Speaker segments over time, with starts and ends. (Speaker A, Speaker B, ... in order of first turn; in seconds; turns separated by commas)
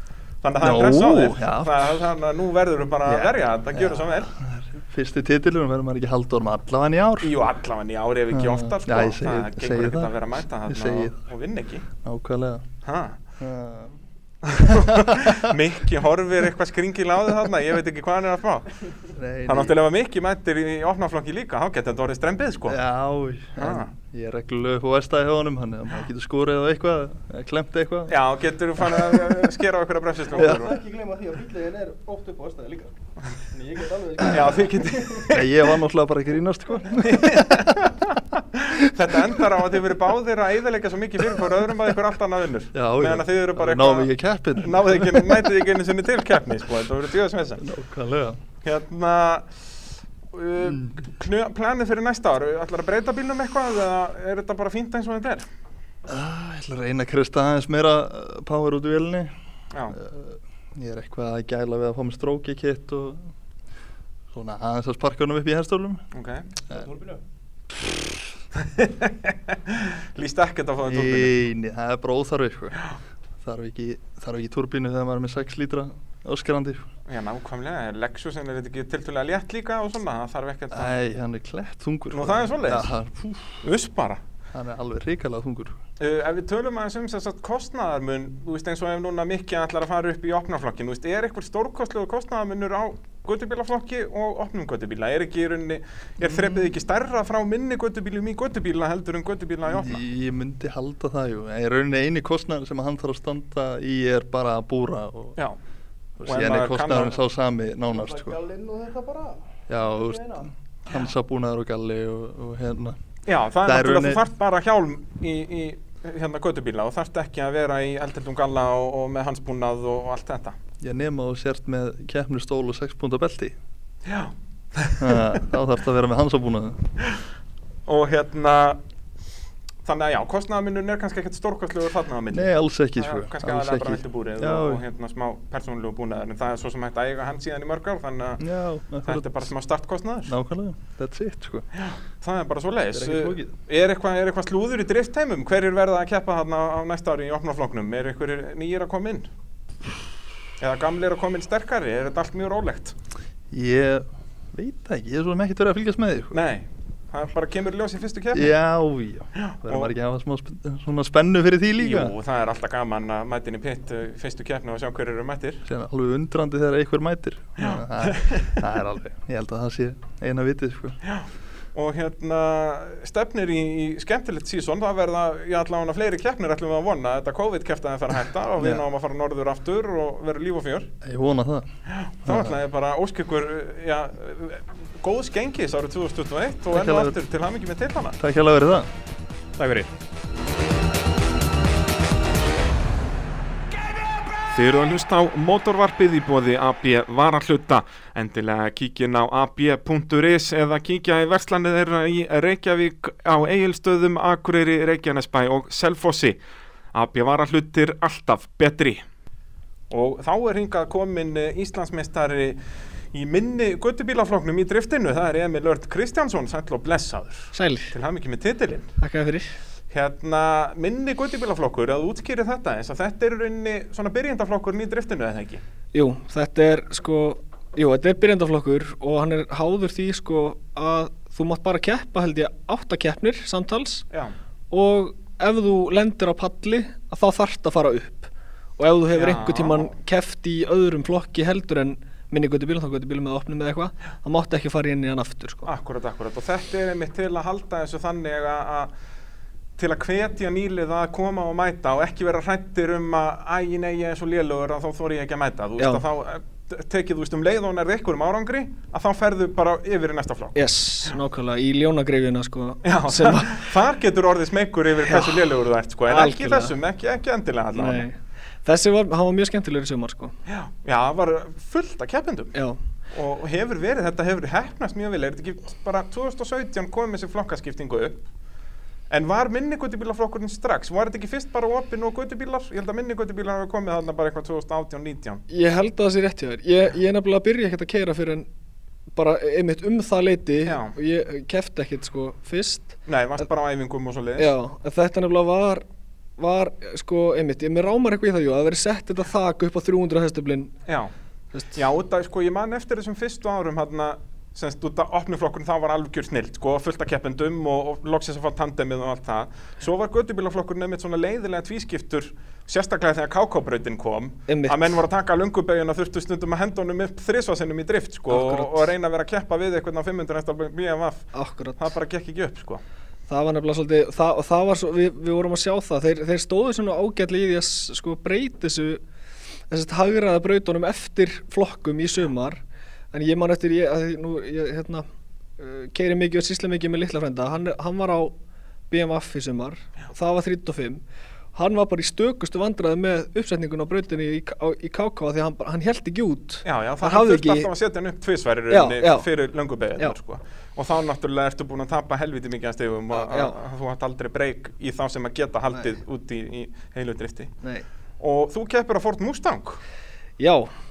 Speaker A: 0.4-4.3, Speaker B: 0.6-2.1, Speaker B: 3.0-7.3, Speaker A: 7.2-11.8, Speaker B: 8.3-11.2, Speaker B: 11.9-12.6, Speaker A: 12.8-13.2, Speaker B: 13.4-14.0, Speaker A: 14.4-18.7, Speaker B: 14.7-15.3, Speaker B: 19.1-19.7, Speaker A: 19.5-22.8, Speaker B: 22.7-28.1, Speaker A: 23.6-23.9, Speaker A: 28.1-30.7, Speaker B: 28.8-29.2, Speaker C: 30.4-32.9, Speaker B: 30.4-30.6, Speaker C: 33.5-35.2, Speaker A: 34.3-35.5, Speaker B: 35.3-37.7, Speaker A: 37.0-38.0, Speaker A: 38.6-47.6, Speaker B: 42.7-45.5, Speaker B: 47.6-48.4, Speaker A: 48.6-49.5, Speaker A: 50.3-55.4, Speaker B: 50.6-50.9, Speaker B: 56.1-59.3, Speaker B: 59.9-63.3, Speaker B: 64.3-66.0, Speaker A: 66.1-66.4, Speaker C: 66.7-67.2, Speaker A: 68.6-71.3, Speaker B: 70.8-72.8, Speaker B: 73.4-76.8, Speaker A: 77.1-80.9, Speaker B: 80.7-83.6, Speaker A: 82.1-82.9, Speaker A: 83.6-84.2, Speaker B: 84.5-85.8, Speaker A: 86.0-100.0, Speaker B: 96.2-96.7, Speaker B: 99.7-105.4, Speaker B: 106.2-108.4, Speaker A: 106.2-107.2, Speaker C: 107.9-110.5, Speaker B: 109.7-113.0, Speaker A: 113.2-120.5, Speaker B: 113.6-114.2, Speaker B: 120.8-123.5, Speaker A: 124.0-125.2, Speaker B: 125.0-126.8, Speaker A: 127.9-128.8, Speaker A: 129.8-138.4, Speaker B: 132.3-134.8, Speaker B: 138.4-139.5, Speaker A: 139.0-140.3, Speaker B: 140.2-141.7, Speaker A: 141.8-149.3, Speaker B: 142.9-143.5, Speaker A: 150.6-152.9, Speaker B: 153.5-156.3, Speaker A: 156.3-158.5, Speaker B: 158.3-162.1, Speaker A: 159.4-159.9, Speaker A: 161.8-165.6, Speaker B: 165.6-171.0, Speaker A: 167.6-168.5, Speaker A: 171.0-180.9, Speaker B: 178.6-178.8, Speaker B: 181.0-181.7, Speaker A: 181.9-188.2, Speaker B: 182.2-182.6, Speaker B: 186.7-187.1, Speaker B: 188.2-188.9, Speaker A: 189.6-189.9, Speaker A: 194.5-206.4, Speaker A: 206.9-209.0, Speaker A: 209.9-212.6, Speaker A: 213.1-218.8, Speaker D: 217.5-217.9, Speaker D: 219.0-219.5, Speaker A: 219.9-225.6, Speaker D: 225.9-234.1, Speaker D: 234.7-245.7, Speaker A: 239.1-239.9, Speaker A: 245.6-248.9, Speaker A: 249.8-261.1, Speaker D: 260.5-263.6, Speaker A: 262.8-268.1, Speaker D: 265.0-265.5, Speaker D: 266.1-266.8, Speaker D: 267.7-270.3, Speaker A: 270.5-272.5, Speaker A: 273.1-278.2, Speaker A: 279.1-285.4, Speaker D: 285.5-288.5, Speaker D: 289.1-293.4, Speaker A: 290.6-290.9, Speaker A: 293.1-294.5, Speaker D: 294.4-295.8, Speaker D: 296.4-300.7, Speaker A: 300.9-301.1, Speaker A: 301.7-321.2, Speaker D: 314.5-314.9, Speaker D: 318.3-318.9, Speaker D: 321.3-321.9, Speaker A: 321.8-322.8, Speaker D: 323.3-329.0, Speaker D: 329.7-332.6, Speaker D: 333.1-335.0, Speaker D: 335.6-338.3, Speaker D: 338.9-341.0, Speaker D: 341.5-347.7, Speaker A: 346.6-357.5, Speaker D: 348.7-349.3, Speaker D: 353.1-353.6, Speaker A: 358.2-359.8, Speaker D: 360.4-360.7